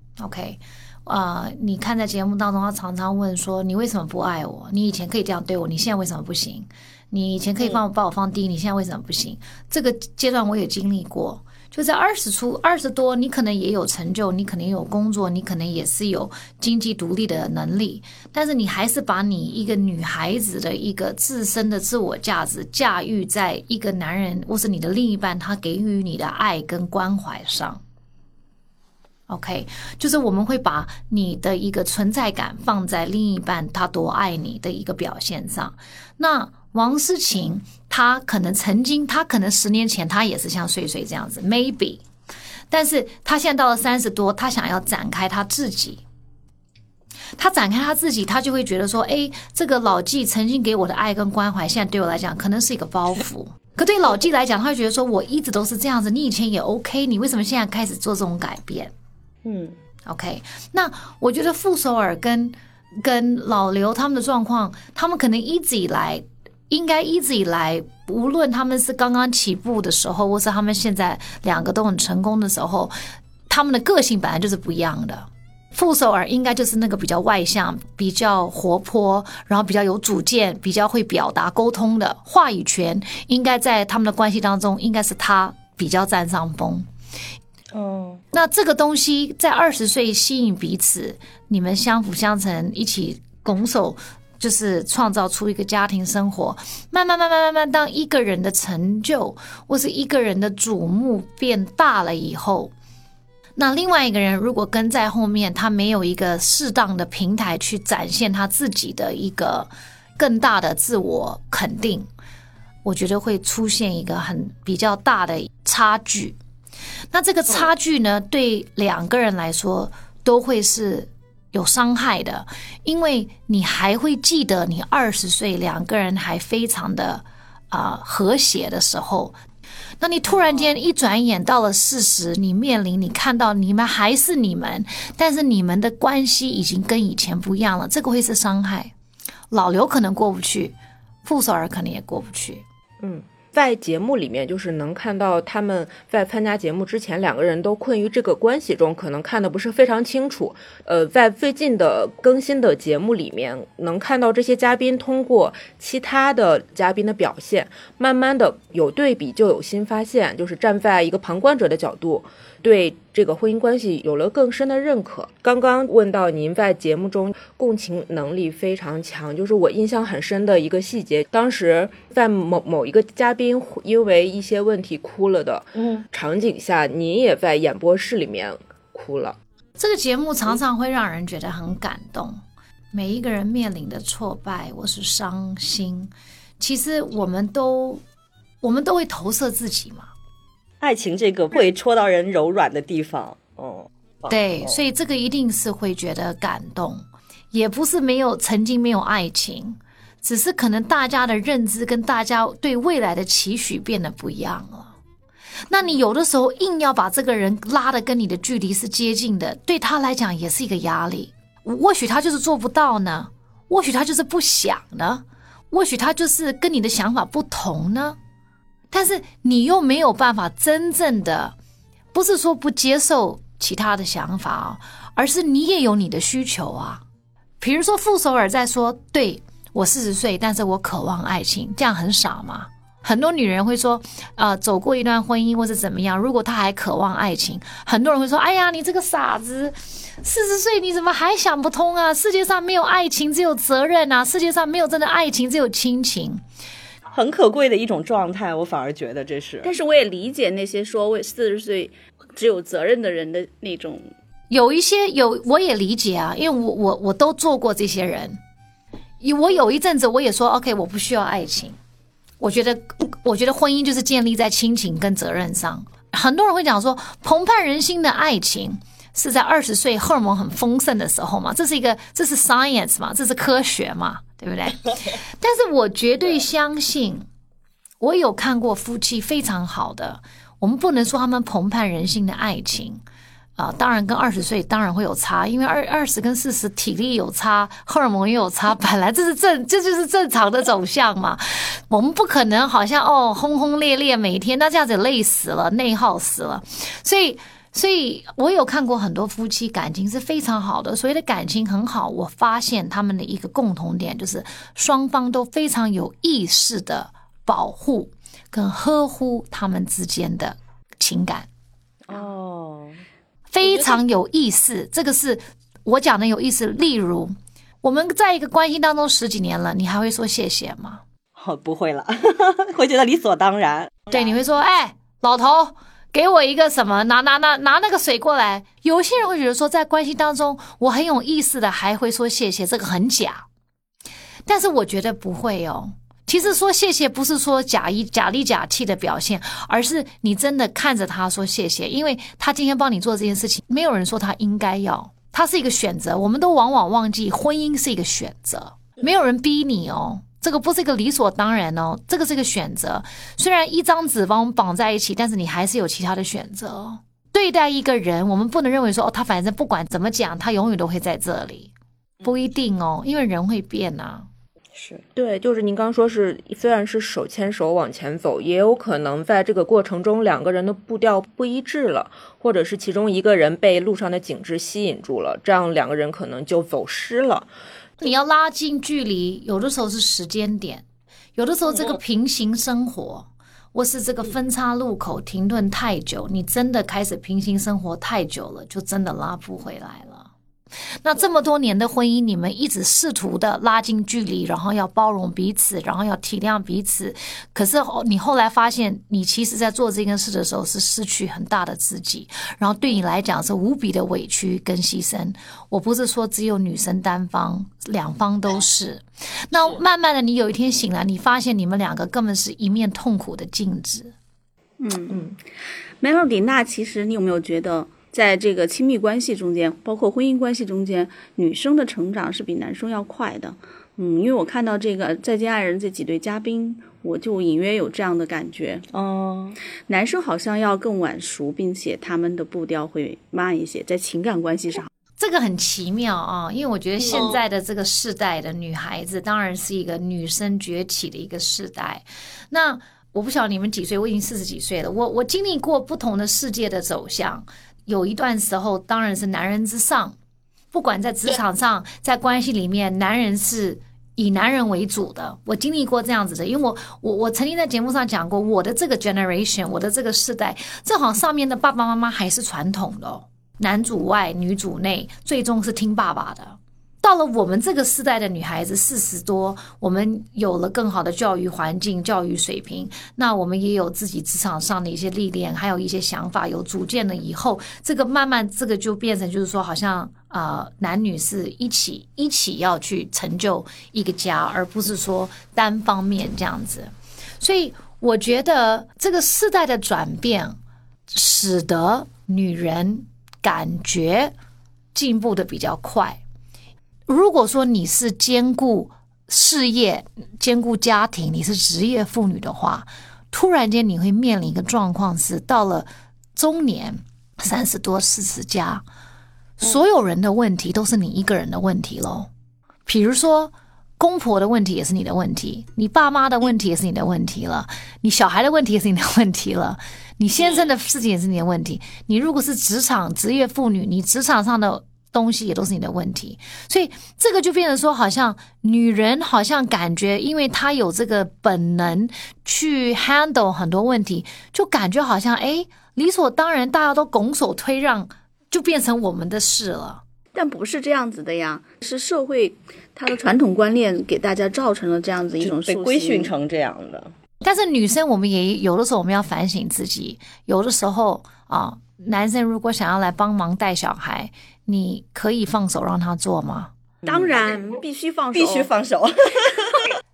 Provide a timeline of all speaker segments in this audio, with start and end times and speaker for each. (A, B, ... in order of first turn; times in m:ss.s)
0:00.2-0:27.8 A
0:29.3-0:42.0 A
0:42.7-0:46.0 A
0:47.4-0:58.9 A
0:59.4-0:59.8 B
1:00.0-1:12.9 A
1:13.5-1:26.8 A
1:27.7-1:28.2 B
1:28.3-1:42.7 A
1:43.6-1:52.1 A
1:52.8-1:56.4 A
1:57.1-2:09.4 A
2:10.0-2:18.9 A
2:19.5-2:22.6 A
2:23.0-2:59.4 C
2:55.8-2:56.0 B
2:59.8-3:02.4 A
3:02.9-3:08.0 A
3:08.6-3:10.1 A
3:10.8-3:14.7 B
3:14.3-3:25.0 A
3:25.7-3:38.2 A
3:38.9-3:41.6 A
3:42.1-3:47.0 A
3:47.6-4:06.4 A
4:07.1-4:09.7 B
4:09.6-4:14.1 D
4:14.5-4:18.4 A
4:19.2-4:21.8 A
4:22.4-4:37.3 A
4:38.0-4:43.0 A
4:43.6-5:11.5 A
5:12.0-5:13.0 B
5:13.5-5:21.0 A
5:21.4-5:24.1 B
5:24.1-5:33.4 A
5:34.5-6:01.7 A
6:02.2-6:04.3 A
6:04.7-6:05.0 B
6:05.1-6:17.5 C
6:18.0-6:20.8 A
6:21.4-6:30.3 A
6:31.0-6:54.1 A
6:54.8-6:55.3 D
6:56.0-7:08.8 D
7:08.9-7:09.6 B
7:09.9-7:14.9 D
7:15.2-7:30.2 A
7:17.0-7:17.4 B
7:30.7-8:10.6 A
8:11.1-8:14.3 A
8:14.9-8:16.2 A
8:17.1-8:28.8 A
8:29.6-8:32.3 A
8:32.8-9:00.0 A
9:00.3-9:06.3 D
9:05.4-9:07.1 B
9:07.4-9:16.7 A
9:17.0-9:17.6 B
9:17.0-9:18.7 D
9:18.3-9:19.9 B